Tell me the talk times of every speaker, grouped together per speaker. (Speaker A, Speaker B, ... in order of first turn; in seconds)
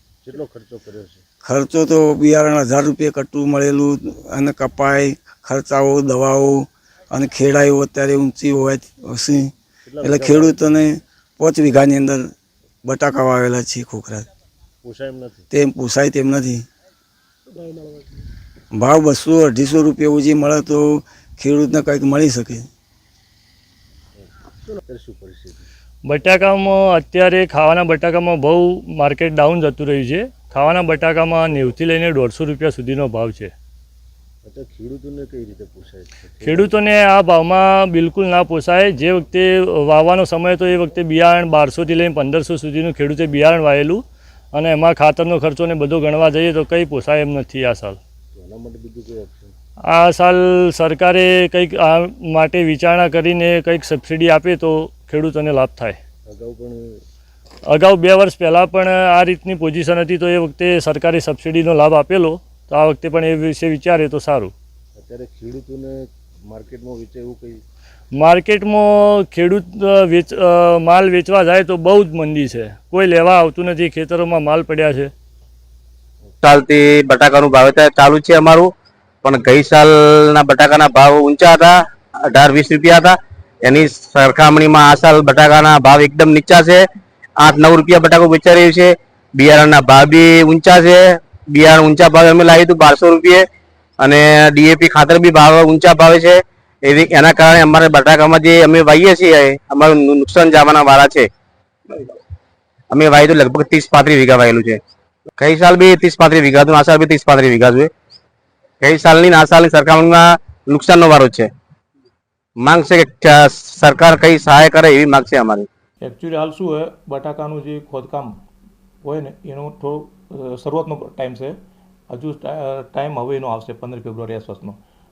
Speaker A: 0.2-1.2, 9.8-10.6, 14.8-15.5, 17.6-18.1, 24.2-25.7, 34.5-36.8, 48.4-49.5, 56.3-57.0, 65.0-67.6
Speaker B: 1.4-12.3, 12.8-14.3, 15.5-16.6, 18.7-22.7
Speaker C: 26.1-33.5, 36.4-48.0, 49.9-56.0, 57.7-64.5, 68.1-75.1
Speaker D: 76.4-78.7, 79.2-81.7, 82.3-86.8, 87.4-93.5, 94.0-101.3, 102.9-104.8, 105.4-107.9, 108.8-111.5, 112.7-115.7
Speaker E: 116.0-118.3, 119.0-121.6, 122.1-124.8